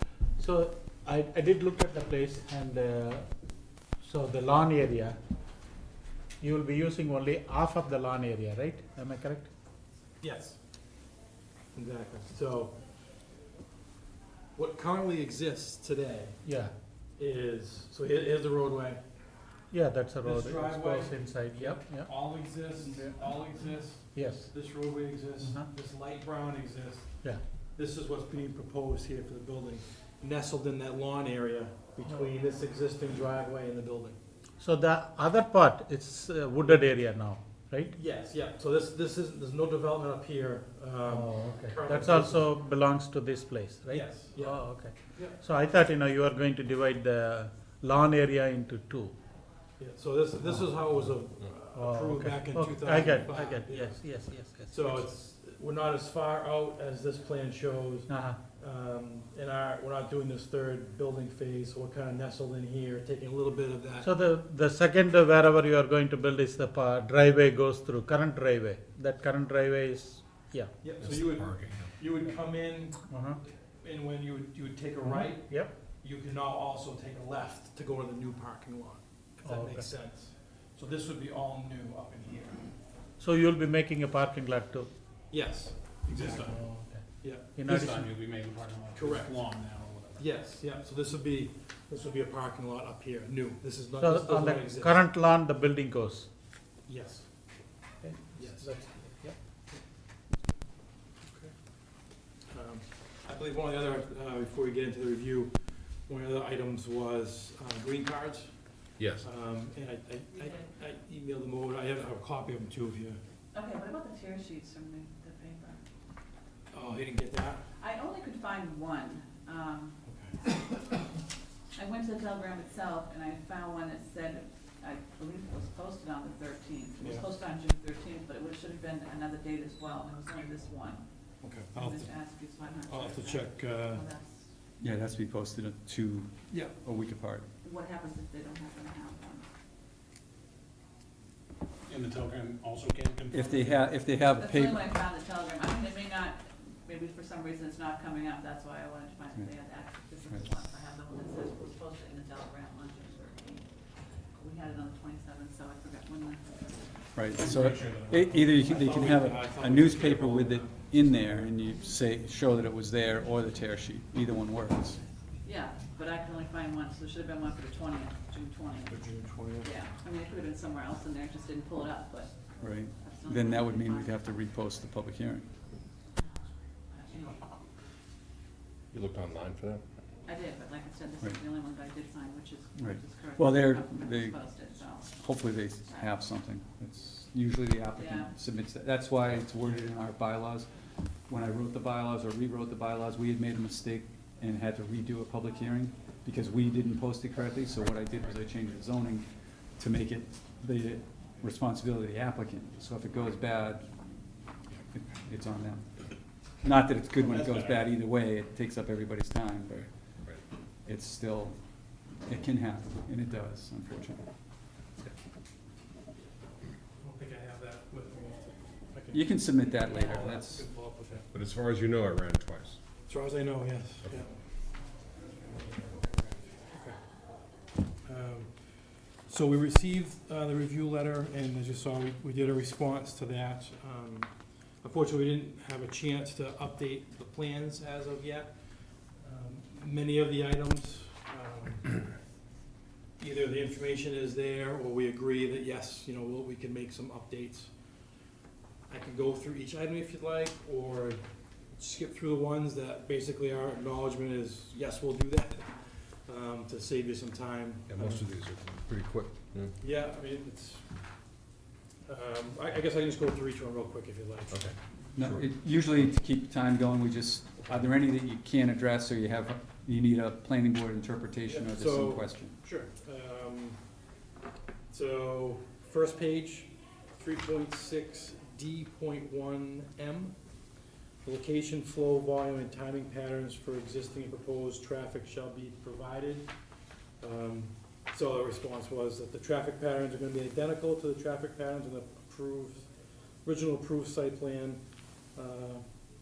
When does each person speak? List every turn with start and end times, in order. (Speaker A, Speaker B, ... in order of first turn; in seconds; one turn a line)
Speaker A: 0.3-3.3
Speaker A: 4.0-5.2
Speaker A: 6.4-9.5
Speaker B: 10.2-10.6
Speaker B: 11.7-12.8
Speaker B: 14.6-16.6
Speaker A: 16.4-16.8
Speaker B: 17.2-19.0
Speaker A: 19.7-22.1
Speaker B: 20.2-34.2
Speaker A: 24.1-24.5
Speaker A: 25.4-25.7
Speaker A: 34.6-37.9
Speaker B: 37.9-42.4
Speaker A: 41.1-49.1
Speaker B: 43.9-45.4
Speaker B: 49.8-64.1
Speaker A: 50.5-51.2
Speaker A: 51.7-55.1
Speaker A: 58.1-58.4
Speaker A: 64.0-70.7
Speaker B: 70.8-82.7
Speaker C: 71.0-71.9
Speaker A: 73.1-73.4
Speaker A: 75.0-75.7
Speaker A: 79.4-79.9
Speaker A: 83.2-84.9
Speaker B: 85.3-88.0
Speaker D: 86.1-86.8
Speaker A: 86.6-87.0
Speaker A: 87.5-88.1
Speaker D: 87.6-90.3
Speaker B: 88.9-89.5
Speaker B: 90.2-95.0
Speaker A: 94.0-96.3
Speaker B: 96.9-97.3
Speaker A: 98.0-99.4
Speaker B: 98.4-98.9
Speaker B: 101.2-113.2
Speaker C: 109.0-109.2
Speaker E: 110.3-110.7
Speaker E: 113.5-115.8
Speaker B: 116.7-117.6
Speaker E: 117.8-120.0
Speaker B: 120.1-120.4
Speaker E: 121.8-131.1
Speaker B: 127.0-127.2
Speaker B: 131.4-132.3
Speaker E: 131.7-134.5
Speaker B: 132.9-134.0
Speaker F: 134.8-137.5
Speaker E: 137.6-139.5
Speaker D: 141.9-144.0
Speaker F: 143.3-144.9
Speaker E: 144.2-153.7
Speaker E: 154.3-157.8
Speaker F: 157.2-165.0
Speaker D: 157.4-158.5
Speaker B: 158.5-161.4
Speaker E: 165.4-169.0
Speaker B: 168.9-169.7
Speaker E: 169.6-172.4
Speaker F: 172.6-175.5
Speaker E: 173.0-174.2
Speaker E: 176.9-177.4
Speaker C: 178.9-179.8
Speaker E: 180.3-186.1
Speaker F: 182.8-184.4
Speaker F: 185.1-190.7
Speaker E: 187.9-188.3
Speaker F: 191.3-203.9
Speaker F: 204.9-205.9
Speaker F: 206.6-209.9
Speaker B: 207.2-207.9
Speaker F: 210.8-211.6
Speaker F: 212.3-214.2
Speaker B: 217.0-219.3
Speaker F: 219.1-220.7
Speaker E: 219.8-220.3
Speaker B: 219.9-221.3
Speaker C: 221.3-222.8
Speaker B: 223.1-224.6
Speaker B: 225.4-227.4
Speaker B: 228.0-242.0
Speaker B: 243.2-247.7
Speaker B: 248.9-258.2
Speaker C: 257.9-259.7
Speaker B: 259.8-260.9
Speaker B: 262.1-264.7
Speaker C: 264.5-265.5
Speaker F: 265.2-272.6
Speaker B: 271.5-273.8
Speaker B: 274.9-280.4
Speaker B: 281.2-286.5
Speaker B: 287.2-296.0